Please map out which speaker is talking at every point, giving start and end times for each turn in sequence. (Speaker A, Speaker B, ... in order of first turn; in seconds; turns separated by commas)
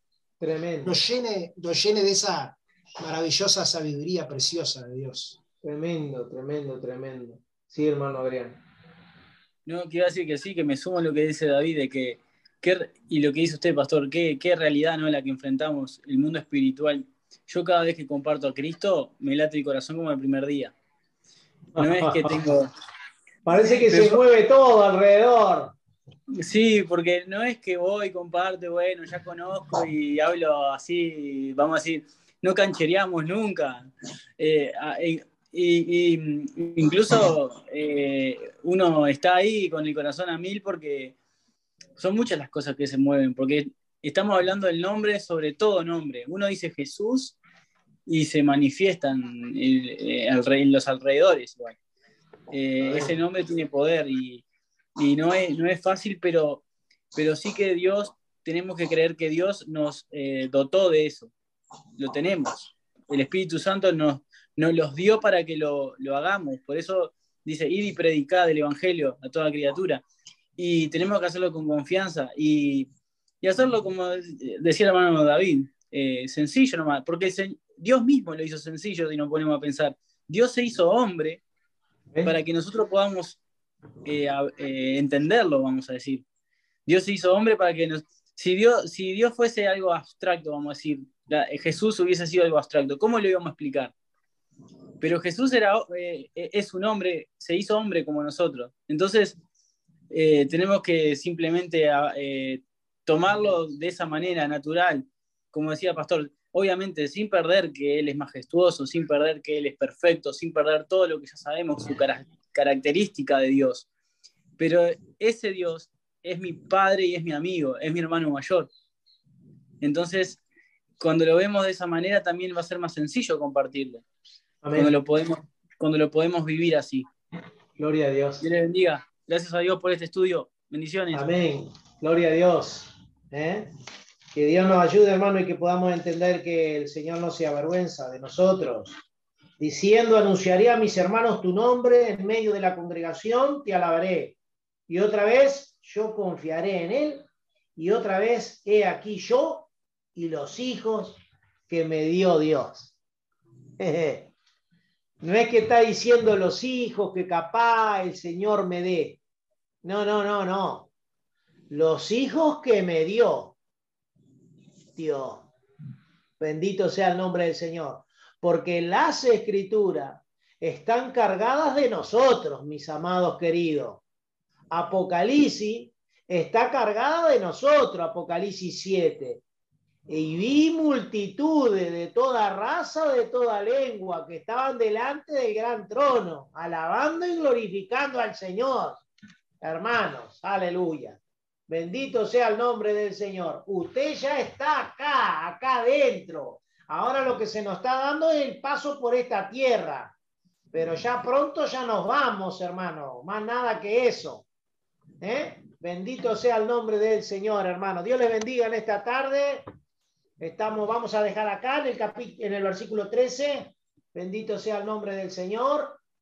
Speaker A: 0.4-1.0, Speaker B: 0.8-5.4, Speaker A: 5.6-8.6, Speaker C: 9.7-20.7, Speaker A: 21.8-22.4, Speaker C: 21.8-22.7, Speaker A: 23.5-25.7, Speaker C: 23.5-24.2, Speaker C: 26.3-41.1, Speaker C: 42.0-47.4, Speaker C: 48.1-51.8, Speaker C: 52.5-54.4, Speaker A: 52.9-53.1, Speaker C: 55.0-56.6, Speaker C: 57.1-61.3, Speaker C: 62.0-70.0, Speaker C: 70.6-72.9, Speaker C: 73.4-81.4, Speaker C: 82.2-83.4, Speaker C: 84.0-86.2, Speaker C: 86.9-93.9, Speaker C: 95.0-99.4, Speaker C: 100.1-113.9, Speaker C: 114.6-118.7, Speaker C: 119.8-120.4, Speaker C: 121.0-124.0, Speaker A: 124.6-125.0, Speaker C: 124.7-127.1, Speaker A: 127.8-128.4, Speaker C: 128.4-131.2, Speaker A: 131.1-133.7, Speaker A: 134.3-138.9, Speaker A: 139.6-144.4, Speaker A: 144.9-147.2, Speaker A: 147.8-152.9, Speaker A: 153.8-154.3, Speaker A: 155.2-159.2, Speaker A: 159.8-160.9, Speaker A: 161.7-163.6, Speaker A: 164.9-165.5, Speaker A: 166.4-174.0, Speaker A: 174.7-179.4, Speaker A: 180.1-189.0, Speaker A: 189.6-200.1, Speaker A: 200.7-204.5, Speaker A: 205.2-209.6, Speaker A: 210.4-216.0